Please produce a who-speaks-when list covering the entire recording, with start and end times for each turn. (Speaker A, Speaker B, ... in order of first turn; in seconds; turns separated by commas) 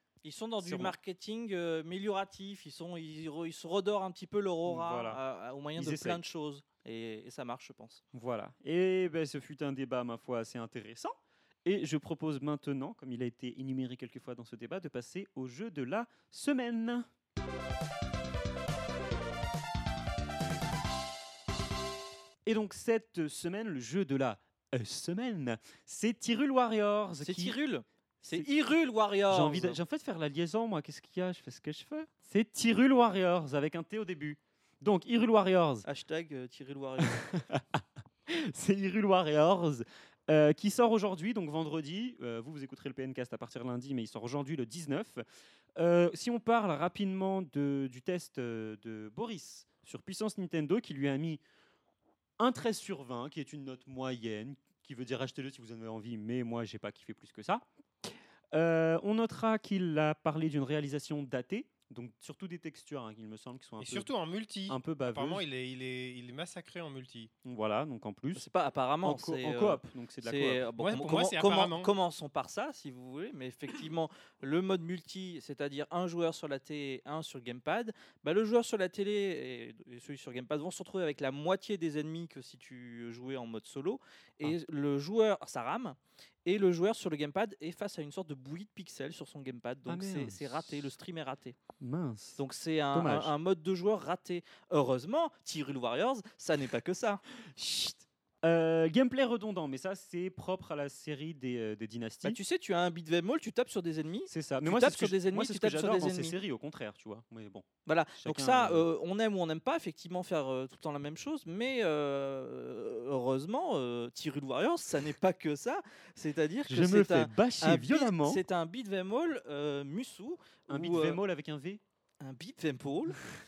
Speaker A: 0.2-8.0, Speaker B: 0.6-0.9, Speaker B: 4.7-5.2, Speaker B: 5.8-6.2, Speaker B: 8.1-17.1, Speaker B: 22.4-27.6, Speaker A: 27.2-29.8, Speaker B: 29.3-35.9, Speaker A: 35.9-37.3, Speaker B: 37.0-45.2, Speaker B: 45.8-51.4, Speaker B: 52.4-64.1, Speaker C: 63.8-67.3, Speaker B: 64.7-65.4, Speaker B: 67.4-68.5, Speaker A: 68.3-91.5, Speaker B: 69.0-70.7, Speaker C: 70.8-71.9, Speaker B: 89.8-90.9, Speaker B: 91.8-92.4, Speaker A: 92.4-97.2, Speaker B: 92.9-93.3, Speaker B: 97.4-102.4, Speaker A: 102.2-106.3, Speaker B: 104.3-108.8, Speaker A: 107.8-121.2, Speaker B: 116.7-118.4, Speaker B: 120.7-121.8, Speaker A: 122.2-123.2